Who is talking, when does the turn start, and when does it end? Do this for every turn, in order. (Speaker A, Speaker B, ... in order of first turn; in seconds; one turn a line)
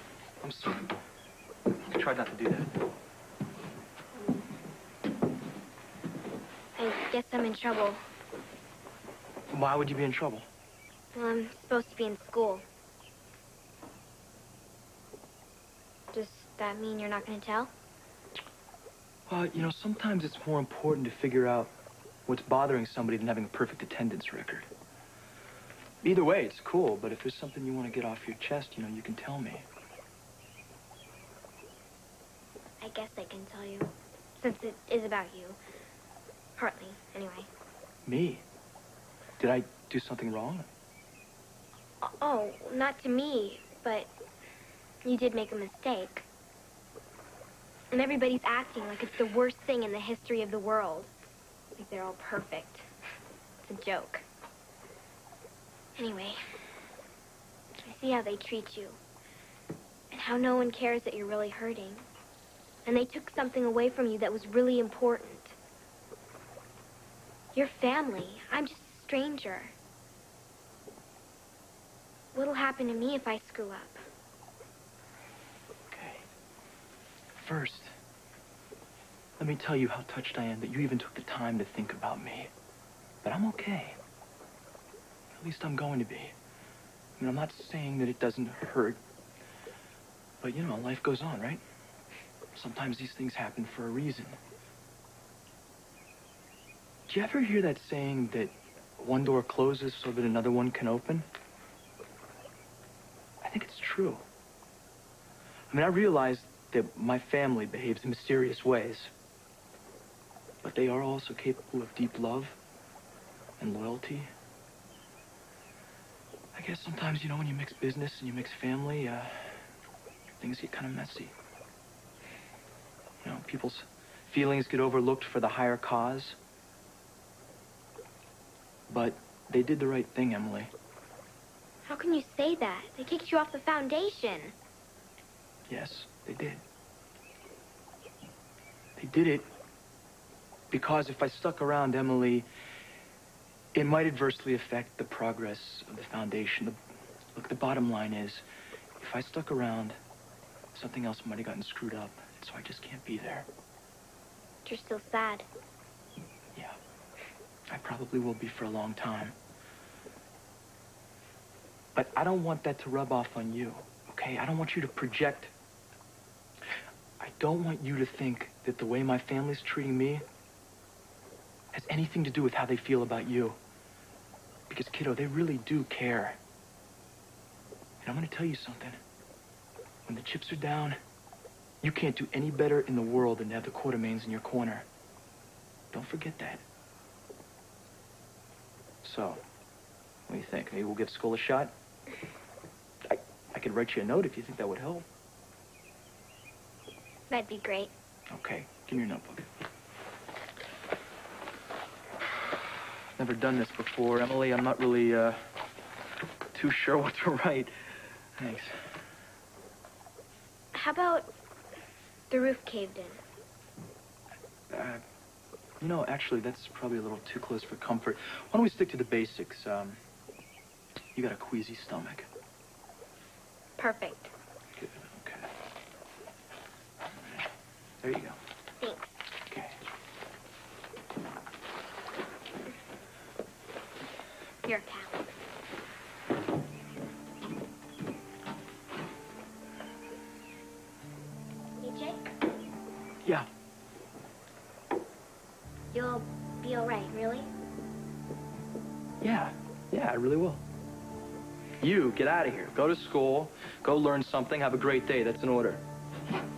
Speaker A: 0.4-0.9
Speaker A: 1.9-2.7
Speaker B: 6.8-8.0
Speaker A: 9.5-10.5
Speaker B: 11.1-12.6
Speaker B: 16.1-17.7
Speaker A: 19.3-21.7
Speaker A: 22.3-24.7
Speaker A: 26.0-29.7
Speaker B: 32.8-35.6
Speaker B: 36.6-37.5
Speaker A: 38.0-38.4
Speaker A: 39.4-40.7
Speaker B: 42.0-44.1
Speaker B: 45.0-46.2
Speaker B: 47.9-51.1
Speaker B: 51.8-52.9
Speaker B: 53.6-54.2
Speaker B: 56.0-56.4
Speaker B: 57.8-59.0
Speaker B: 60.1-62.0
Speaker B: 62.9-65.6
Speaker B: 67.5-69.7
Speaker B: 72.3-74.0
Speaker A: 75.9-76.2
Speaker A: 77.4-77.9
Speaker A: 79.4-82.5
Speaker A: 83.2-84.0
Speaker A: 85.3-86.3
Speaker A: 87.2-89.0
Speaker A: 90.4-91.6
Speaker A: 92.5-94.4
Speaker A: 97.1-101.3
Speaker A: 103.4-104.2
Speaker A: 105.7-109.1
Speaker A: 110.6-112.6
Speaker A: 113.6-114.3
Speaker A: 116.5-119.6
Speaker A: 120.4-121.3
Speaker A: 123.2-126.4
Speaker A: 128.9-130.7
Speaker B: 131.8-134.5
Speaker A: 135.7-136.6
Speaker A: 139.0-139.5
Speaker A: 140.7-142.5
Speaker A: 143.7-146.8
Speaker A: 147.3-148.4
Speaker A: 149.0-150.0
Speaker A: 150.7-153.5
Speaker B: 154.6-155.5
Speaker A: 157.7-159.3
Speaker A: 161.9-165.5
Speaker A: 167.2-170.2
Speaker A: 171.7-173.6
Speaker A: 174.7-176.4
Speaker A: 178.0-179.0
Speaker A: 180.1-181.0
Speaker A: 181.8-184.9
Speaker A: 185.9-186.6
Speaker A: 189.0-189.4
Speaker A: 190.3-191.7
Speaker A: 193.1-195.1
Speaker B: 197.3-197.9
Speaker A: 198.3-199.4
Speaker A: 203.2-205.4
Speaker A: 206.5-207.7
Speaker A: 208.4-208.7
Speaker B: 210.7-211.3
Speaker B: 212.3-213.2
Speaker A: 214.7-215.0
Speaker A: 215.8-220.0
Speaker A: 221.1-222.3
Speaker B: 223.8-224.3
Speaker A: 224.8-225.5
Speaker A: 227.2-227.4
Speaker A: 228.0-228.4
Speaker B: 228.8-229.1
Speaker A: 229.4-229.8
Speaker B: 234.6-235.3
Speaker B: 241.8-242.3
Speaker B: 245.9-247.5
Speaker A: 249.2-250.6
Speaker A: 251.8-255.8